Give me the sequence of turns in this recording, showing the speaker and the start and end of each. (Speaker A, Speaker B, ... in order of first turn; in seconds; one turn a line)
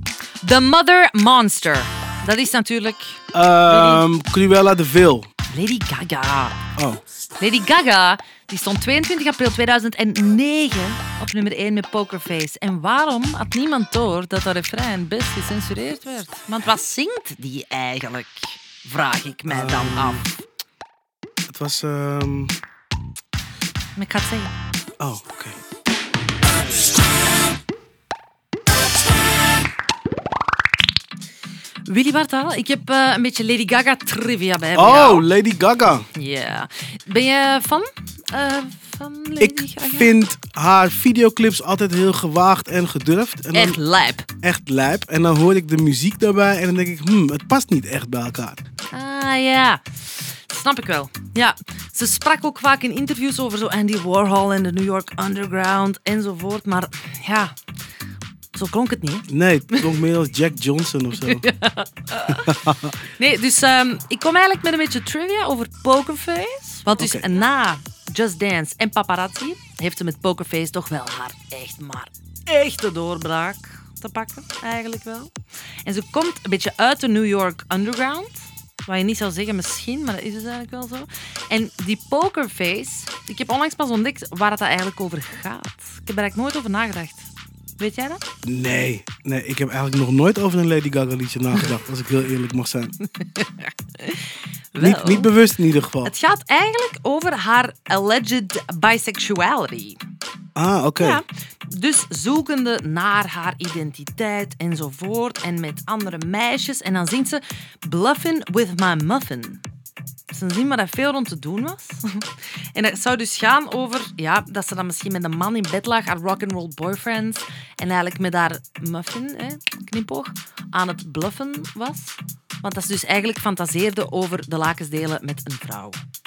Speaker A: 0.4-4.0
Speaker B: 3.3-5.3
Speaker A: 5.5-6.6
Speaker B: 6.8-7.0
Speaker A: 7.4-20.4
Speaker B: 19.5-20.2
Speaker B: 21.5-22.6
Speaker A: 24.0-24.5
Speaker B: 25.0-25.6
Speaker A: 31.9-35.3
Speaker B: 34.8-36.1
Speaker A: 36.1-40.2
Speaker B: 39.4-43.8
Speaker A: 43.5-44.3
Speaker B: 44.4-48.6
Speaker A: 48.9-57.5
Speaker A: 58.5-60.0
Speaker B: 59.3-61.5
Speaker A: 61.2-75.3
Speaker B: 62.4-63.0
Speaker B: 67.0-67.3
Speaker A: 75.8-88.2
Speaker B: 88.4-92.9
Speaker A: 93.2-95.3
Speaker B: 94.8-96.1
Speaker A: 96.0-100.0
Speaker B: 100.5-101.2
Speaker A: 101.0-109.6
Speaker A: 110.3-126.0